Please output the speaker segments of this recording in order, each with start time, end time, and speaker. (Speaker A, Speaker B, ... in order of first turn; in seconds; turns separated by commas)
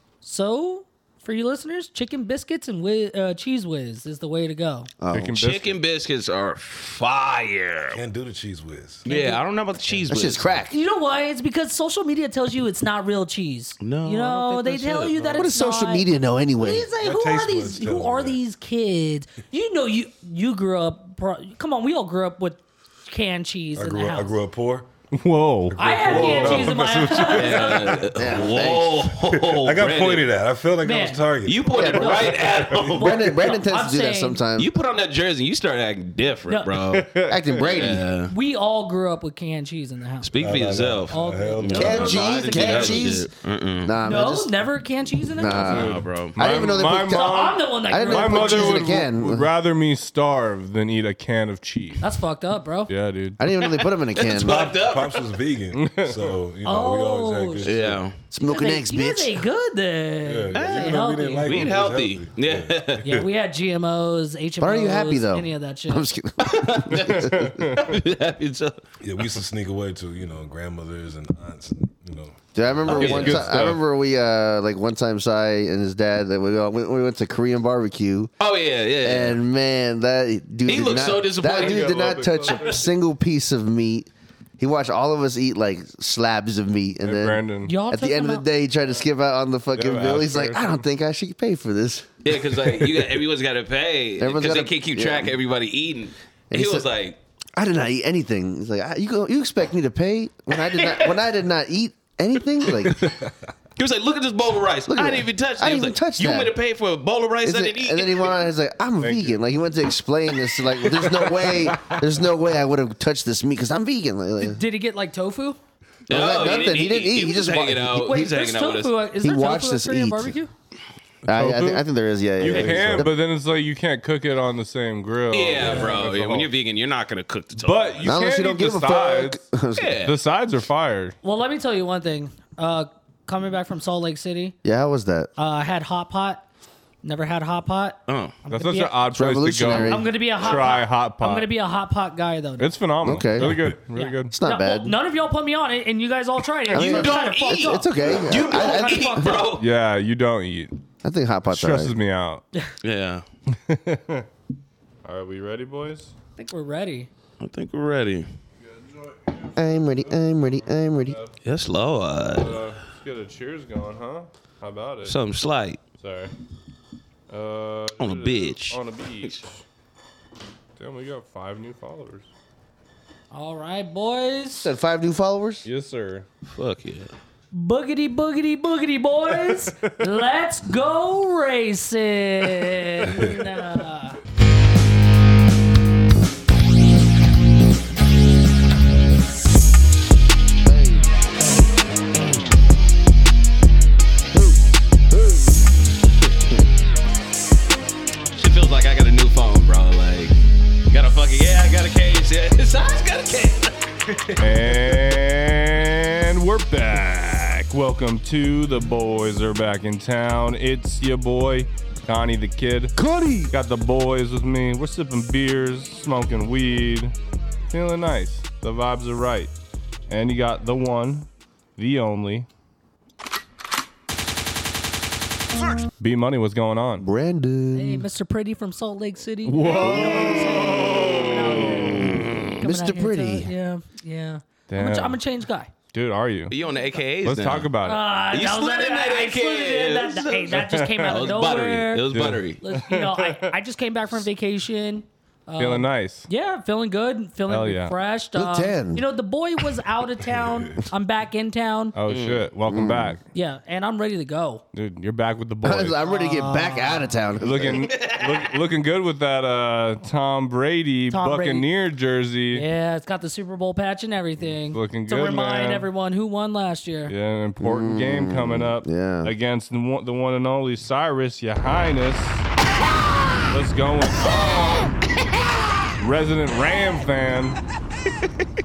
Speaker A: 0.2-4.9, Speaker B: 5.0-5.4, Speaker C: 5.1-5.8, Speaker D: 5.4-8.0, Speaker E: 7.9-9.1, Speaker D: 9.1-10.6, Speaker A: 9.1-9.4, Speaker E: 9.8-10.6, Speaker B: 10.1-10.8, Speaker A: 10.7-24.4, Speaker D: 13.8-15.4, Speaker B: 15.3-16.9, Speaker E: 16.7-18.4, Speaker E: 23.8-24.9, Speaker C: 25.1-27.9, Speaker E: 25.7-28.7, Speaker A: 25.8-28.1, Speaker D: 27.3-30.3, Speaker B: 28.1-29.1, Speaker E: 29.2-32.1, Speaker A: 30.8-31.2, Speaker D: 31.5-33.5, Speaker B: 31.7-34.7, Speaker A: 32.0-34.4, Speaker D: 34.6-37.1, Speaker A: 36.5-36.8, Speaker C: 36.9-37.7, Speaker B: 37.3-38.0, Speaker D: 37.7-38.4, Speaker A: 38.2-40.3, Speaker D: 40.2-44.0, Speaker E: 40.4-43.1, Speaker A: 41.1-42.2, Speaker B: 41.8-43.3, Speaker B: 43.8-44.5, Speaker A: 44.0-45.9, Speaker B: 45.4-49.5, Speaker D: 45.5-46.4, Speaker C: 45.6-52.0, Speaker A: 47.0-48.9, Speaker A: 52.0-52.9, Speaker C: 52.9-53.4, Speaker B: 53.4-54.7, Speaker D: 53.6-55.4, Speaker E: 54.3-58.0, Speaker C: 55.7-56.3, Speaker A: 56.6-57.7, Speaker D: 57.6-58.2, Speaker B: 58.3-59.4, Speaker A: 58.4-61.8, Speaker E: 60.2-63.3, Speaker D: 60.5-63.3, Speaker A: 63.0-66.1, Speaker B: 64.6-67.8, Speaker D: 66.4-68.8, Speaker C: 66.9-68.0, Speaker E: 69.0-73.7, Speaker B: 72.5-78.3, Speaker D: 72.9-73.4, Speaker C: 72.9-73.8, Speaker D: 78.4-79.4, Speaker B: 79.0-93.1, Speaker D: 80.7-82.9, Speaker C: 81.4-82.7, Speaker C: 87.0-87.8, Speaker A: 87.7-88.5, Speaker C: 89.8-90.7, Speaker D: 92.2-97.2, Speaker B: 94.2-95.4, Speaker B: 96.5-96.9, Speaker B: 97.6-103.0, Speaker D: 100.7-101.2, Speaker D: 102.6-103.2, Speaker D: 103.8-108.3, Speaker B: 104.9-106.5, Speaker B: 107.4-114.6, Speaker C: 109.0-109.4, Speaker E: 111.5-112.0, Speaker A: 114.4-115.6, Speaker B: 116.1-118.1, Speaker D: 116.1-119.0, Speaker A: 117.9-120.5, Speaker B: 119.2-120.3, Speaker B: 121.3-123.1, Speaker C: 121.3-121.8, Speaker C: 122.4-126.5, Speaker E: 122.4-123.1, Speaker D: 125.3-128.1, Speaker C: 127.6-129.4, Speaker B: 128.0-130.0, Speaker D: 129.8-130.1, Speaker C: 130.0-131.2, Speaker A: 131.2-134.6, Speaker B: 134.6-135.3, Speaker A: 135.4-136.4, Speaker A: 137.0-139.0, Speaker D: 138.1-138.3, Speaker C: 138.5-141.5, Speaker B: 139.1-140.1, Speaker A: 139.7-142.7, Speaker C: 142.6-144.3, Speaker B: 143.0-143.6, Speaker E: 143.4-143.8, Speaker A: 143.9-149.5, Speaker B: 144.3-145.0, Speaker D: 146.7-149.7, Speaker B: 146.7-149.4, Speaker C: 149.6-150.8, Speaker B: 151.0-151.9, Speaker C: 151.5-152.4, Speaker D: 152.8-153.2, Speaker C: 153.5-154.3, Speaker C: 155.1-156.1, Speaker A: 156.4-157.1, Speaker D: 157.4-158.3, Speaker C: 158.7-161.3, Speaker B: 159.6-161.2, Speaker D: 161.4-162.7, Speaker C: 162.3-165.2, Speaker D: 165.1-165.8, Speaker C: 166.0-166.3, Speaker C: 167.3-169.6, Speaker D: 168.0-169.4, Speaker C: 170.8-172.3, Speaker A: 173.3-174.7, Speaker B: 174.6-175.7, Speaker C: 175.6-176.3, Speaker D: 176.5-177.1, Speaker A: 177.5-184.2, Speaker C: 179.4-179.9, Speaker E: 183.0-183.3, Speaker B: 190.7-191.1, Speaker B: 194.3-194.6, Speaker B: 195.1-195.5, Speaker D: 198.3-200.4, Speaker D: 200.9-204.4, Speaker C: 204.4-212.9, Speaker B: 213.0-213.5, Speaker C: 213.5-217.1, Speaker C: 217.7-219.5, Speaker C: 220.1-222.5, Speaker C: 226.0-227.1, Speaker B: 227.0-228.1, Speaker A: 227.7-235.7, Speaker C: 229.4-232.1, Speaker D: 231.7-232.5, Speaker B: 232.6-233.5, Speaker C: 234.7-235.2, Speaker C: 235.9-236.6, Speaker D: 236.5-237.7, Speaker A: 236.7-237.0, Speaker C: 237.2-238.1, Speaker A: 237.8-252.0, Speaker D: 238.3-242.6, Speaker C: 240.5-241.3, Speaker C: 242.1-243.6, Speaker C: 245.6-246.3, Speaker C: 247.5-248.0, Speaker B: 248.3-249.0, Speaker E: 250.3-250.8, Speaker C: 251.9-253.2, Speaker D: 252.1-252.5, Speaker B: 252.7-253.2, Speaker A: 253.3-254.6, Speaker C: 254.7-256.0, Speaker B: 255.6-257.9, Speaker A: 256.0-257.1, Speaker C: 257.4-262.7, Speaker D: 257.7-258.6, Speaker A: 261.1-261.7, Speaker A: 262.5-267.1, Speaker C: 264.7-265.9, Speaker C: 267.1-272.4, Speaker B: 267.6-269.3, Speaker C: 273.5-274.9, Speaker C: 276.0-277.6